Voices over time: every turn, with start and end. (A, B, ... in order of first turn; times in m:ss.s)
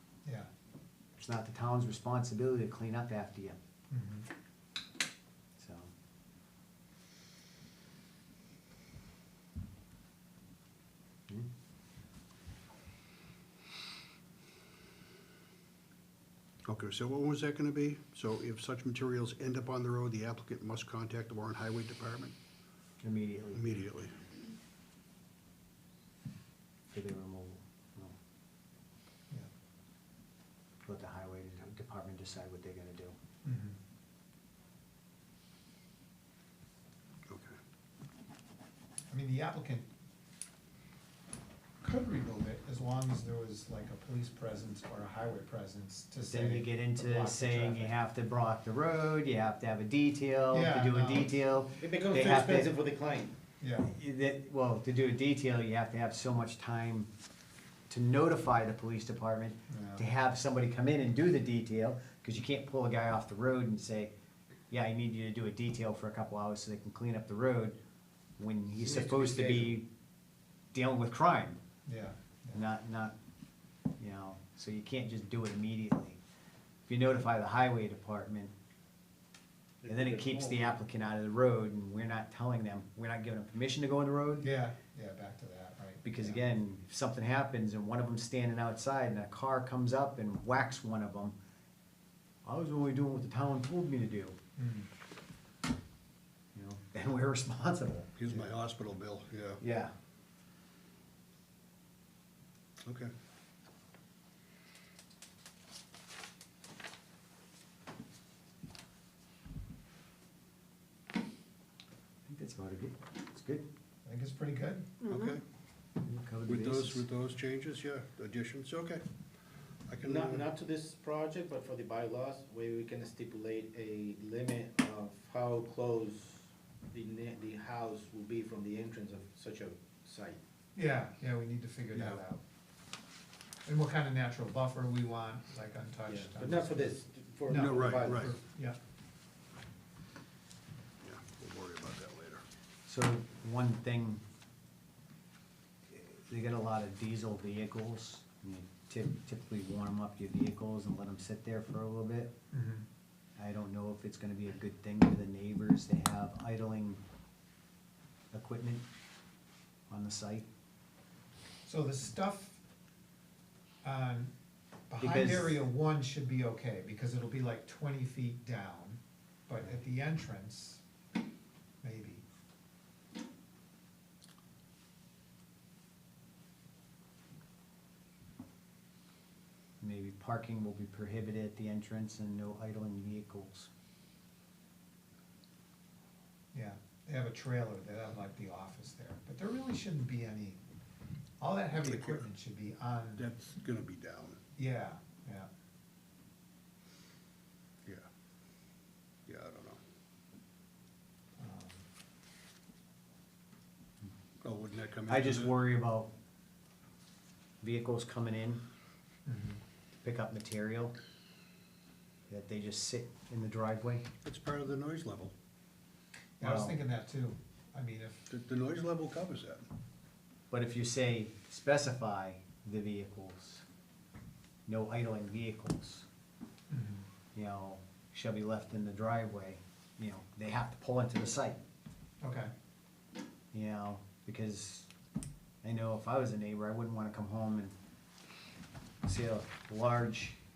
0:01.2-0:03.6 A
0:03.9-0:04.3 B
0:05.6-0:05.9 A
0:16.7-0:22.4 C
0:23.0-0:23.6 A
0:23.5-0:24.2 C
0:26.9-0:28.2 A
0:30.8-0:33.2 A
0:33.4-0:33.8 B
0:37.3-0:37.6 C
0:39.1-0:39.9 B
0:41.8-0:48.0 B
0:46.3-0:52.7 A
0:50.5-0:51.4 B
0:51.8-0:53.3 D
0:53.6-0:53.9 B
0:53.8-0:57.1 A
0:57.9-1:04.1 A
0:59.7-1:00.0 B
1:04.7-1:07.8 A
1:08.4-1:09.8 A
1:08.9-1:09.4 B
1:09.0-1:09.7 D
1:10.7-1:11.6 A
1:11.8-1:12.6 B
1:12.5-1:13.1 A
1:14.0-1:16.2 A
1:16.9-1:18.5 A
1:19.8-1:20.7 D
1:19.9-1:24.5 A
1:24.4-1:26.4 B
1:26.0-1:31.4 A
1:32.4-1:34.4 A
1:34.6-1:34.9 B
1:36.5-1:38.4 A
1:38.2-1:39.6 C
1:39.6-1:39.9 A
1:42.8-1:43.1 C
1:52.2-1:53.6 A
1:54.0-1:55.1 B
1:55.0-1:55.4 C
1:56.0-1:57.0 A
1:56.5-1:59.1 C
1:59.8-2:00.5 C
2:00.0-2:10.4 D
2:10.8-2:12.4 B
2:13.6-2:16.9 B
2:16.1-2:18.3 D
2:17.5-2:18.3 C
2:17.5-2:18.8 B
2:21.0-2:22.4 C
2:22.9-2:24.2 A
2:25.9-2:32.3 A
2:32.5-2:32.9 B
2:33.4-2:37.0 A
2:38.3-2:38.8 A
2:39.9-2:40.5 A
2:41.7-2:42.6 B
2:43.8-2:44.3 B
2:44.9-2:50.8 B
2:45.0-2:45.6 A
2:51.8-2:52.2 B
2:59.8-3:03.7 A
3:06.5-3:10.6 B
3:11.4-3:13.2 B
3:11.8-3:12.2 C
3:13.2-3:14.4 C
3:14.6-3:15.5 B
3:19.3-3:19.8 C
3:21.4-3:21.8 B
3:24.4-3:25.6 C
3:25.1-3:26.1 A
3:27.6-3:28.6 A
3:29.2-3:29.6 B
3:30.0-3:31.0 A
3:32.3-3:34.1 A
3:34.2-3:35.3 C
3:36.4-3:38.2 B
3:36.4-3:36.8 A
3:38.3-3:39.7 C
3:40.5-3:43.6 A
3:44.7-3:46.1 A
3:46.7-3:47.1 B
3:47.3-3:51.6 A
3:52.2-3:52.5 B
3:53.5-3:54.9 A
3:55.6-3:57.7 A
3:59.0-4:00.4 A